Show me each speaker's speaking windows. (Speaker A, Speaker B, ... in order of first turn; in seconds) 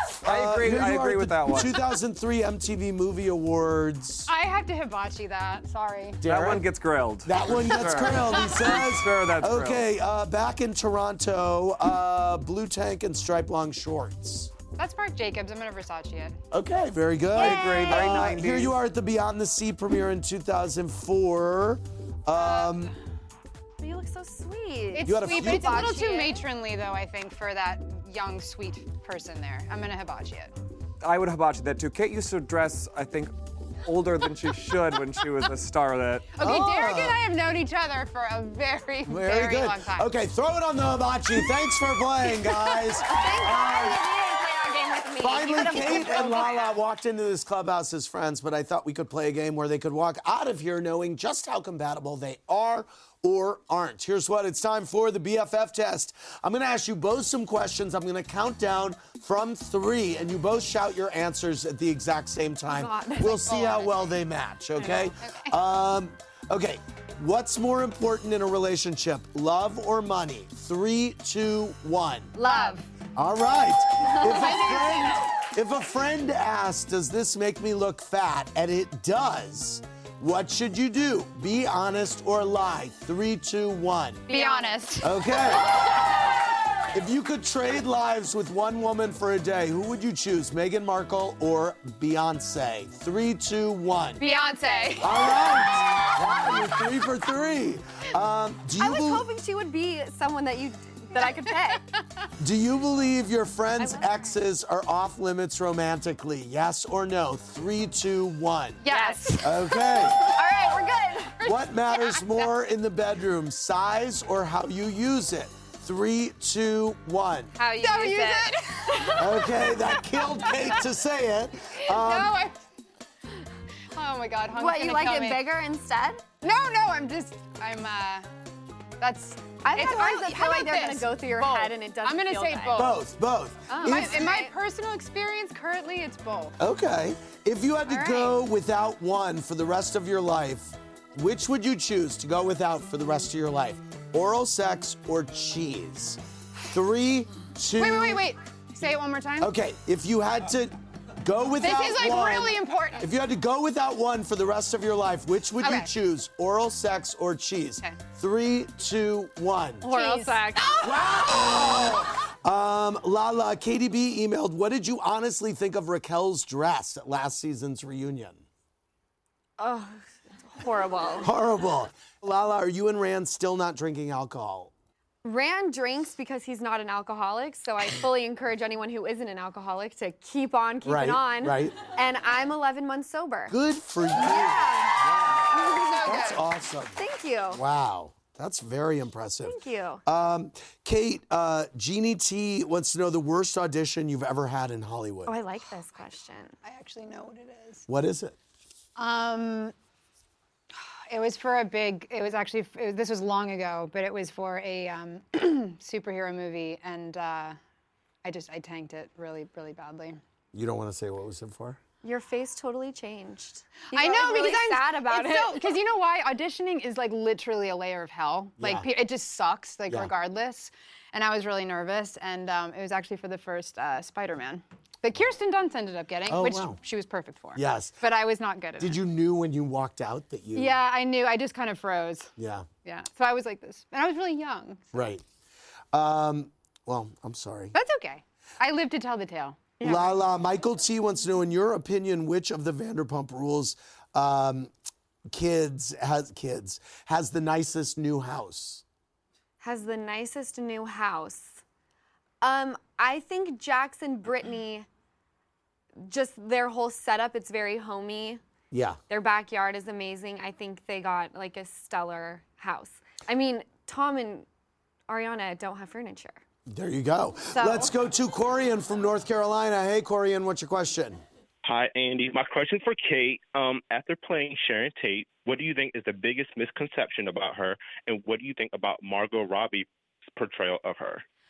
Speaker A: 0.2-4.3, 6.2-6.7, 7.2-14.5, 16.5-22.9, 25.0-25.9, 36.4-37.2, 39.0-44.1, 45.2-72.3, 73.1-84.3, 85.0-85.7, 86.9-94.2, 95.0-99.3, 102.4-108.8, 109.4-110.3, 111.4-117.5, 119.2-122.4, 132.7-134.2, 136.6-148.2, 149.4-159.9, 160.8-168.4, 171.2-174.7, 180.8-181.8, 183.5-185.4, 186.0-187.0, 187.5-195.3, 197.9-198.3, 210.5-211.8, 218.6-218.8, 226.3-226.8, 227.5-228.0, 228.8-230.7, 232.4-232.7, 234.9-235.2, 235.9-237.7, 239.8-244.7, 245.3-248.8, 258.7-259.0, 266.7-271.2
Speaker B: 0.2-1.8, 6.2-9.8, 17.3-18.8, 31.0-36.4
Speaker C: 4.3-6.2, 14.8-16.4, 22.4-22.9, 24.9-30.5, 36.3-40.1, 45.8-46.6, 64.8-65.5, 72.4-72.8, 74.2-75.2, 84.3-85.1, 94.2-95.4, 101.1-101.8, 108.8-110.8, 111.9-112.3, 117.7-120.7, 121.8-122.6, 123.9-125.5, 126.4-128.3, 129.0-133.0, 133.7-136.6, 137.9-138.3, 147.7-149.5, 151.6-153.1, 155.6-155.9, 159.8-160.8, 185.8-186.4, 196.6-197.8, 199.0-199.7, 201.1-207.6, 208.2-210.2, 213.9-229.0, 230.5-232.3, 232.8-234.9, 237.7-239.9
Speaker D: 17.4-18.3, 23.8-26.4, 43.0-46.8, 62.7-64.0, 72.3-72.8, 74.2-74.8, 84.3-84.8, 94.2-96.7, 98.8-101.9, 103.8-104.3, 108.8-111.5, 117.6-119.5, 124.5-126.2, 129.6-132.9, 133.7-134.5, 159.8-160.9, 169.6-171.3, 175.2-183.6, 184.1-186.4, 186.9-187.6, 189.4-190.0, 195.2-196.6, 212.0-215.8, 239.8-240.1, 249.6-251.6, 252.4-254.9, 256.0-258.4, 259.1-264.4, 265.1-266.4, 267.5-267.9
Speaker E: 271.6-281.2